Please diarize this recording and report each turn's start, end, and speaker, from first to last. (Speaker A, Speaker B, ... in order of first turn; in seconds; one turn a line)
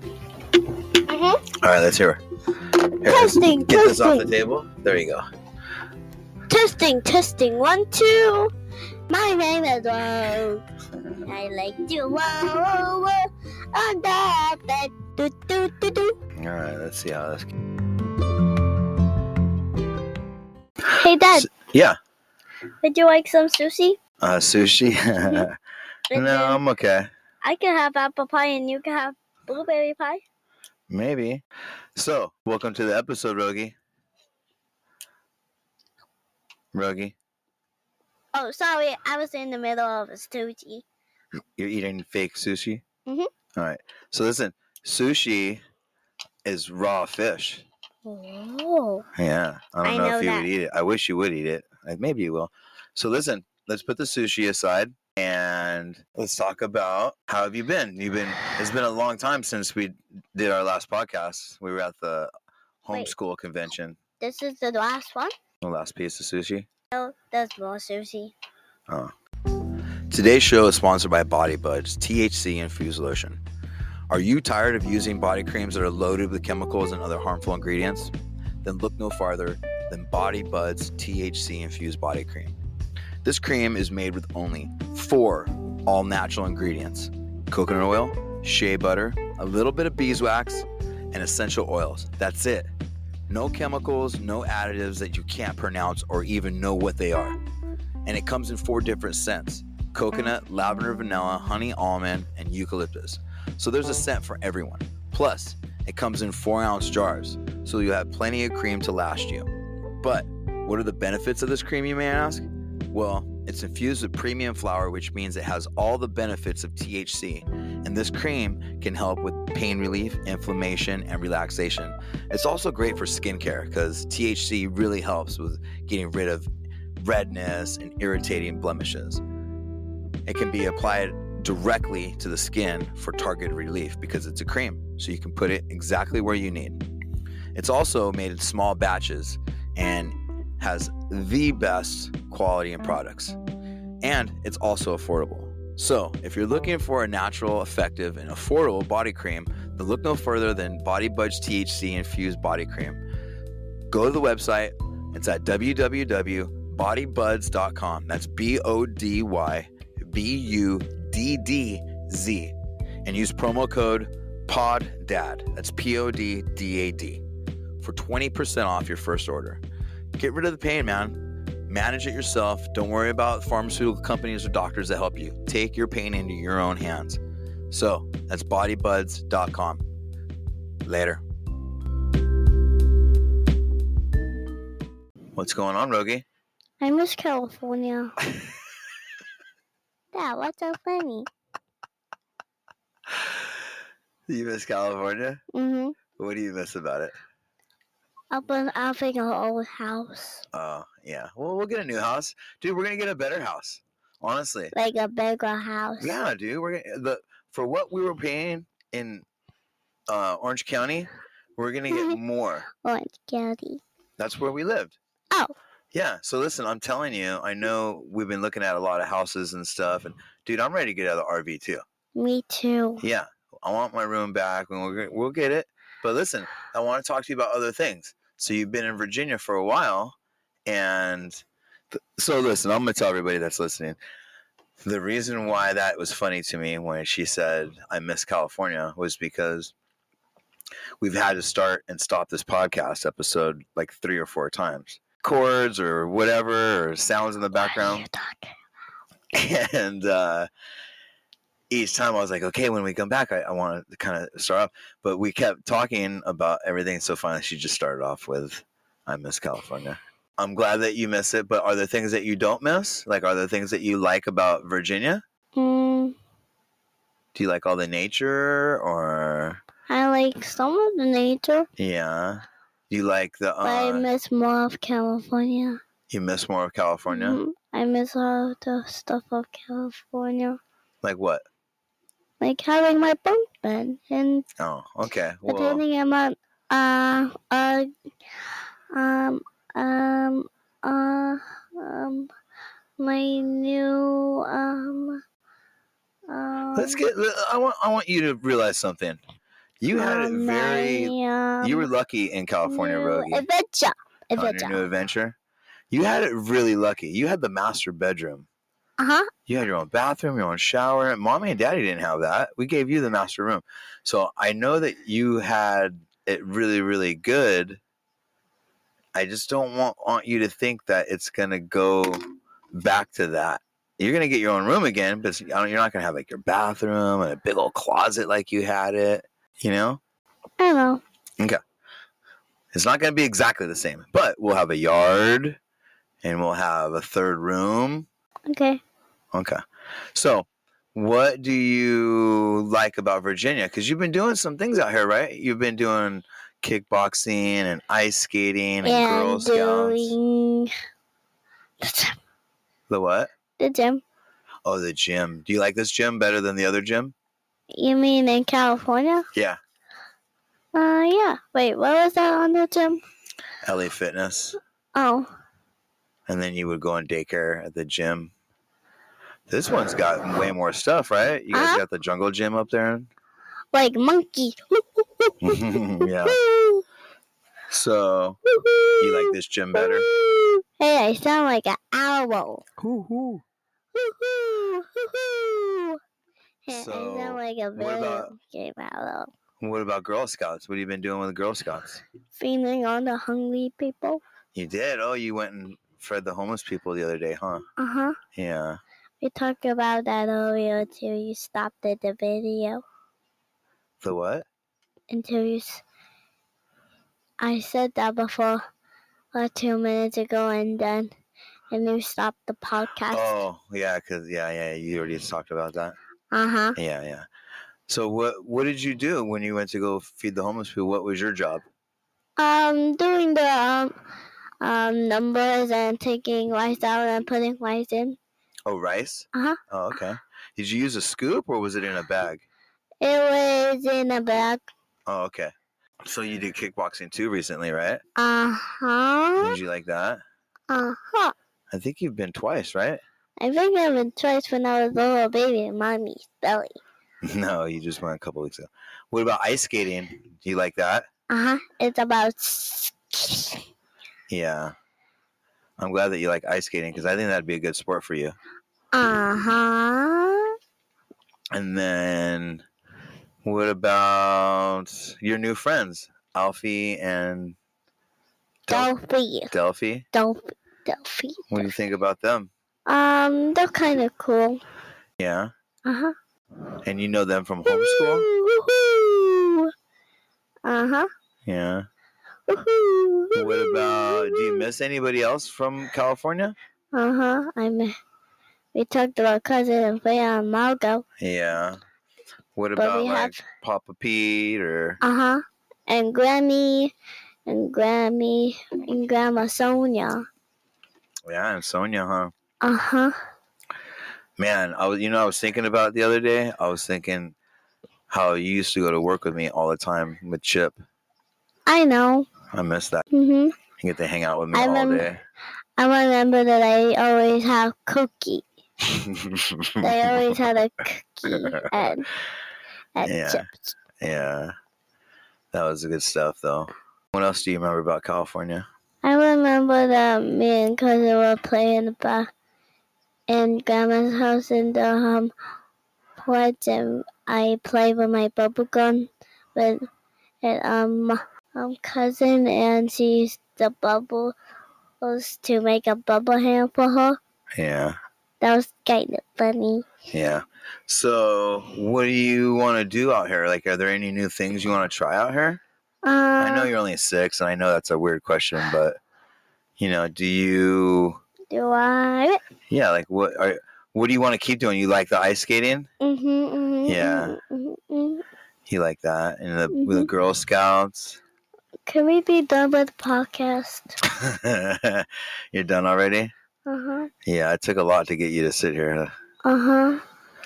Speaker A: 1.1-1.4
Speaker B: 1.6-2.2
Speaker B: 3.0-5.2
Speaker A: 3.0-4.3
Speaker A: 6.5-8.5
Speaker A: 9.1-10.6
Speaker A: 11.2-16.1
Speaker B: 16.4-17.5
Speaker A: 20.9-21.5
Speaker B: 21.3-21.9
Speaker A: 22.8-24.0
Speaker B: 24.2-25.6
Speaker A: 26.1-26.6
Speaker B: 26.1-27.1
Speaker A: 27.4-30.2
Speaker B: 30.9-31.4
Speaker B: 31.9-33.7
Speaker B: 36.7-37.1
Speaker A: 38.3-40.8
Speaker B: 41.6-42.8
Speaker B: 43.5-45.6
Speaker B: 46.4-47.6
Speaker A: 48.0-49.0
Speaker B: 49.1-62.3
Speaker A: 49.8-50.5
Speaker B: 62.8-64.0
Speaker A: 64.2-65.3
Speaker B: 65.6-66.7
Speaker A: 66.9-68.3
Speaker B: 70.1-73.4
Speaker B: 74.1-82.5
Speaker B: 83.2-92.7
Speaker B: 93.3-97.4
Speaker B: 98.0-109.5
Speaker B: 110.0-129.2
Speaker B: 130.2-136.8
Speaker B: 137.5-143.4
Speaker B: 144.0-153.0
Speaker B: 153.9-167.2
Speaker B: 167.8-169.6
Speaker B: 170.2-179.8
Speaker B: 180.8-181.2
Speaker B: 185.3-186.2
Speaker A: 186.8-188.1
Speaker A: 190.1-191.2
Speaker B: 194.3-195.4
Speaker A: 195.5-196.0
Speaker B: 196.2-197.2
Speaker A: 198.3-200.4
Speaker B: 200.5-204.7
Speaker A: 204.7-206.2
Speaker B: 206.0-209.2
Speaker B: 210.1-212.7
Speaker A: 211.9-212.2
Speaker A: 212.8-213.8
Speaker B: 214.2-215.0
Speaker B: 215.9-221.8
Speaker A: 222.1-223.0
Speaker B: 223.0-231.4
Speaker B: 231.9-234.0
Speaker B: 234.8-239.7
Speaker B: 241.0-248.1
Speaker A: 247.5-248.5
Speaker B: 249.3-250.5
Speaker B: 251.7-265.2
Speaker A: 265.6-266.1
Speaker B: 267.3-269.6
Speaker A: 269.9-271.7
Speaker B: 271.8-274.1
Speaker A: 273.6-275.8
Speaker B: 276.1-277.4
Speaker A: 277.1-280.6
Speaker B: 281.0-281.4
Speaker A: 282.4-284.4
Speaker B: 284.6-285.8
Speaker A: 285.4-287.9
Speaker A: 288.9-292.3
Speaker A: 293.0-295.2
Speaker A: 296.3-297.0
Speaker B: 296.7-299.2
Speaker B: 299.8-303.4
Speaker A: 299.9-301.9
Speaker A: 302.6-304.8
Speaker B: 304.4-305.4
Speaker B: 305.9-308.5
Speaker A: 309.0-309.3
Speaker B: 309.5-317.8
Speaker B: 319.1-322.2
Speaker B: 322.7-330.0
Speaker A: 330.6-331.0
Speaker B: 332.7-335.6
Speaker B: 336.2-338.1
Speaker A: 338.5-338.8
Speaker B: 339.3-339.6
Speaker B: 340.1-350.1
Speaker A: 348.8-350.7
Speaker A: 351.8-352.1
Speaker B: 352.9-353.3
Speaker A: 353.6-354.0
Speaker B: 354.6-357.1
Speaker A: 357.7-359.2
Speaker A: 360.7-363.0
Speaker B: 363.6-364.6
Speaker A: 364.9-365.3
Speaker B: 366.3-368.3
Speaker B: 369.5-373.1
Speaker A: 371.5-371.8
Speaker A: 373.7-376.8
Speaker B: 375.4-376.4
Speaker B: 377.7-378.4
Speaker A: 378.5-382.6
Speaker B: 379.0-380.1
Speaker B: 382.8-383.4
Speaker A: 383.9-386.0
Speaker A: 386.6-389.3
Speaker B: 386.7-388.3
Speaker B: 389.6-392.0
Speaker A: 392.4-394.2
Speaker B: 394.5-397.6
Speaker A: 397.8-398.2
Speaker B: 398.3-398.8
Speaker A: 399.2-402.8
Speaker B: 404.0-404.5
Speaker A: 405.1-405.8
Speaker A: 407.4-408.6
Speaker A: 409.3-411.1
Speaker A: 411.7-413.3
Speaker B: 413.1-416.0
Speaker A: 416.3-416.8
Speaker B: 416.8-417.2
Speaker B: 417.9-421.6
Speaker A: 422.4-423.9
Speaker A: 424.6-428.2
Speaker B: 428.6-432.4
Speaker A: 433.0-434.7
Speaker B: 435.1-435.5
Speaker B: 436.0-438.0
Speaker A: 438.1-439.5
Speaker B: 439.4-440.2
Speaker A: 440.7-441.3
Speaker B: 441.7-443.0
Speaker A: 443.4-446.8
Speaker B: 447.2-451.1
Speaker A: 451.3-453.6
Speaker B: 454.3-454.7
Speaker B: 455.8-458.4
Speaker A: 458.9-460.5
Speaker B: 461.5-462.6
Speaker B: 463.4-467.6
Speaker B: 468.7-468.9
Speaker A: 468.7-469.5
Speaker B: 469.5-470.1
Speaker A: 470.1-471.7
Speaker B: 471.5-472.5
Speaker A: 472.9-474.6
Speaker B: 475.2-475.5
Speaker A: 475.9-476.1
Speaker B: 476.8-478.3
Speaker A: 477.6-479.7
Speaker A: 480.6-481.1
Speaker B: 481.4-481.9
Speaker A: 482.5-484.6
Speaker B: 483.3-486.6
Speaker A: 486.9-487.9
Speaker A: 488.7-491.0
Speaker B: 491.2-491.8
Speaker B: 492.6-495.0
Speaker A: 492.8-493.4
Speaker A: 495.0-496.9
Speaker A: 497.4-500.2
Speaker B: 501.3-502.3
Speaker A: 502.6-503.1
Speaker B: 504.4-507.4
Speaker B: 508.1-510.8
Speaker A: 511.6-512.3
Speaker B: 512.5-513.0
Speaker A: 513.1-513.5
Speaker B: 513.8-515.2
Speaker A: 514.5-515.1
Speaker A: 515.8-518.4
Speaker B: 518.9-520.4
Speaker A: 519.8-522.1
Speaker B: 521.2-522.0
Speaker A: 522.9-523.7
Speaker B: 523.0-523.4
Speaker B: 524.0-524.5
Speaker B: 525.5-528.6
Speaker A: 529.0-532.3
Speaker A: 533.3-535.3
Speaker A: 536.2-539.8
Speaker A: 540.4-544.4
Speaker A: 545.0-547.2
Speaker B: 547.5-548.0
Speaker A: 548.4-549.9
Speaker B: 550.1-555.6
Speaker A: 556.0-556.7
Speaker B: 556.4-559.0
Speaker B: 559.8-561.2
Speaker A: 561.5-562.4
Speaker B: 562.7-565.9
Speaker A: 566.0-568.2
Speaker B: 566.9-567.4
Speaker B: 568.7-571.2
Speaker A: 569.7-570.1
Speaker A: 571.9-573.9
Speaker B: 574.1-576.3
Speaker A: 576.7-577.1
Speaker B: 577.2-579.1
Speaker A: 579.4-580.0